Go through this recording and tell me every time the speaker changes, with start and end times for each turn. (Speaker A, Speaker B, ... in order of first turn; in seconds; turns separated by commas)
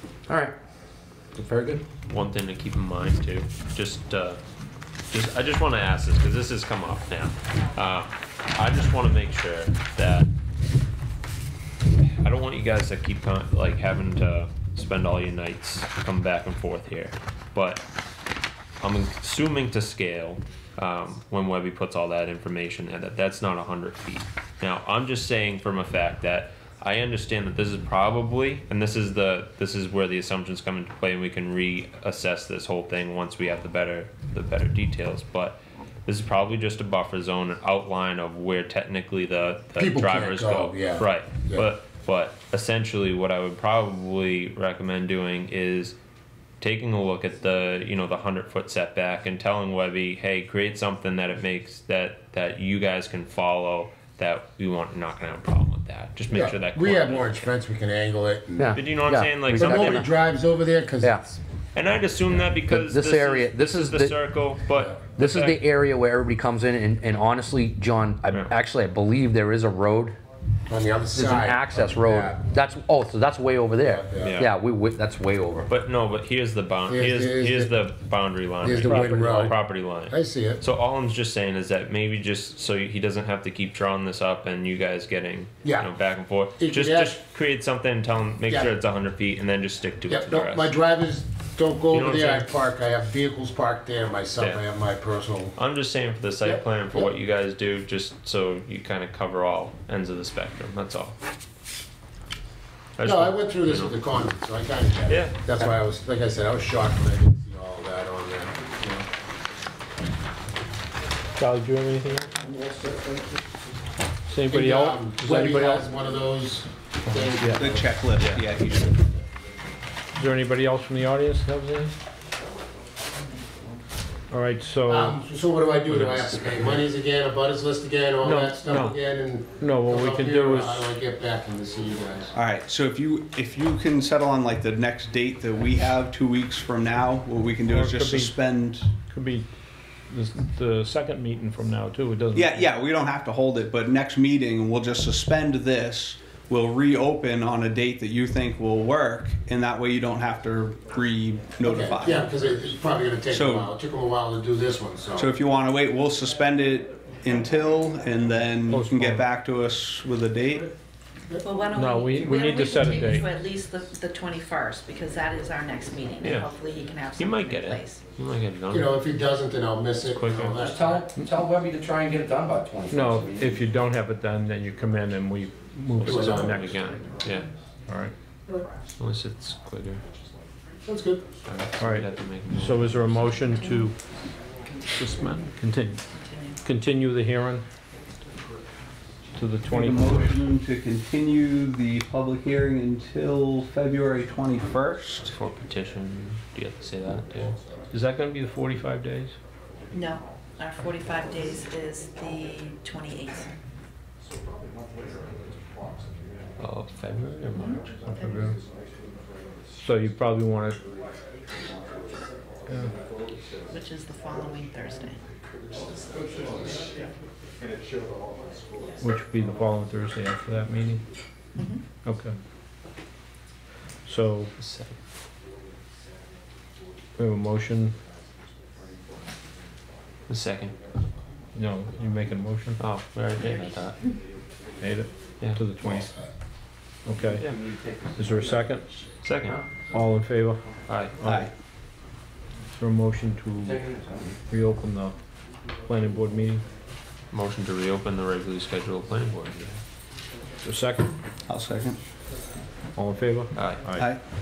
Speaker A: 0.3-0.5, Speaker A: 1.3-1.8, Speaker B: 2.0-4.4, Speaker B: 5.1-10.3, Speaker B: 12.2-17.8, Speaker B: 18.8-46.0, Speaker C: 39.8-41.7, Speaker B: 46.6-57.5, Speaker C: 56.3-58.8, Speaker A: 58.6-60.1, Speaker B: 58.7-60.1, Speaker C: 59.5-61.3, Speaker A: 61.0-61.3, Speaker B: 61.7-65.6, Speaker A: 62.6-64.2, Speaker C: 64.7-65.0, Speaker A: 65.2-70.2, Speaker C: 70.7-72.4, Speaker A: 71.1-75.7, Speaker C: 73.8-74.4, Speaker B: 74.2-74.5, Speaker B: 75.7-90.7, Speaker C: 76.9-77.7, Speaker C: 78.6-79.5, Speaker D: 78.8-79.5, Speaker C: 80.1-80.6, Speaker C: 85.6-85.9, Speaker C: 86.6-87.2, Speaker C: 88.5-88.7, Speaker C: 90.1-95.5, Speaker B: 91.9-92.5, Speaker B: 94.4-94.6, Speaker B: 95.5-101.2, Speaker C: 96.4-97.1, Speaker B: 103.0-103.9, Speaker C: 103.0-109.0, Speaker B: 105.1-105.4, Speaker D: 111.4-112.3, Speaker D: 114.3-115.9, Speaker C: 114.5-117.9, Speaker D: 117.1-117.7, Speaker E: 117.5-119.0, Speaker B: 118.2-118.5, Speaker D: 120.2-121.9, Speaker D: 124.3-125.2, Speaker C: 124.8-132.3, Speaker D: 125.9-126.8, Speaker D: 128.2-129.0, Speaker D: 129.6-130.9, Speaker E: 132.3-138.9, Speaker D: 137.7-138.3, Speaker D: 139.0-139.5, Speaker D: 140.1-142.7, Speaker E: 142.3-152.3, Speaker C: 151.6-155.3, Speaker E: 153.3-153.7, Speaker E: 155.2-160.7, Speaker D: 158.7-159.2, Speaker F: 161.4-168.0, Speaker D: 161.7-163.3, Speaker B: 166.2-166.5, Speaker B: 167.2-168.9, Speaker C: 168.7-171.1, Speaker B: 170.1-170.6, Speaker A: 170.6-173.6, Speaker D: 172.9-177.2, Speaker B: 176.0-177.5, Speaker C: 176.1-176.6, Speaker D: 177.9-178.1, Speaker B: 179.0-180.0, Speaker C: 180.8-181.2, Speaker B: 181.4-183.0, Speaker D: 181.8-183.9, Speaker F: 183.6-183.9, Speaker D: 184.9-186.0, Speaker F: 186.1-186.6, Speaker D: 186.6-187.6, Speaker D: 189.3-190.4, Speaker E: 189.7-195.3, Speaker B: 195.3-197.6, Speaker D: 197.9-199.3, Speaker F: 199.9-203.5, Speaker B: 206.6-207.9, Speaker F: 207.6-208.5, Speaker D: 208.1-208.6, Speaker D: 209.8-210.8, Speaker D: 212.7-212.9, Speaker F: 213.7-217.0, Speaker D: 219.0-221.0, Speaker F: 221.5-221.8, Speaker D: 222.0-222.3, Speaker D: 224.0-224.5, Speaker B: 224.6-225.0, Speaker D: 227.2-227.9, Speaker B: 230.3-230.8, Speaker D: 231.5-232.8, Speaker B: 232.8-234.0, Speaker F: 233.4-234.2, Speaker D: 234.8-236.1, Speaker C: 235.8-236.2, Speaker D: 237.1-237.4, Speaker A: 237.4-238.6, Speaker D: 238.2-238.8, Speaker B: 239.2-239.6, Speaker A: 239.4-239.8, Speaker D: 239.8-240.6, Speaker B: 240.9-241.1, Speaker D: 241.2-241.5, Speaker E: 241.2-241.5, Speaker D: 242.8-243.8, Speaker A: 243.6-244.4, Speaker D: 244.5-245.1, Speaker D: 245.8-246.6, Speaker B: 247.3-249.8, Speaker D: 250.6-251.1, Speaker E: 251.5-252.0, Speaker D: 252.9-254.1, Speaker B: 253.5-253.9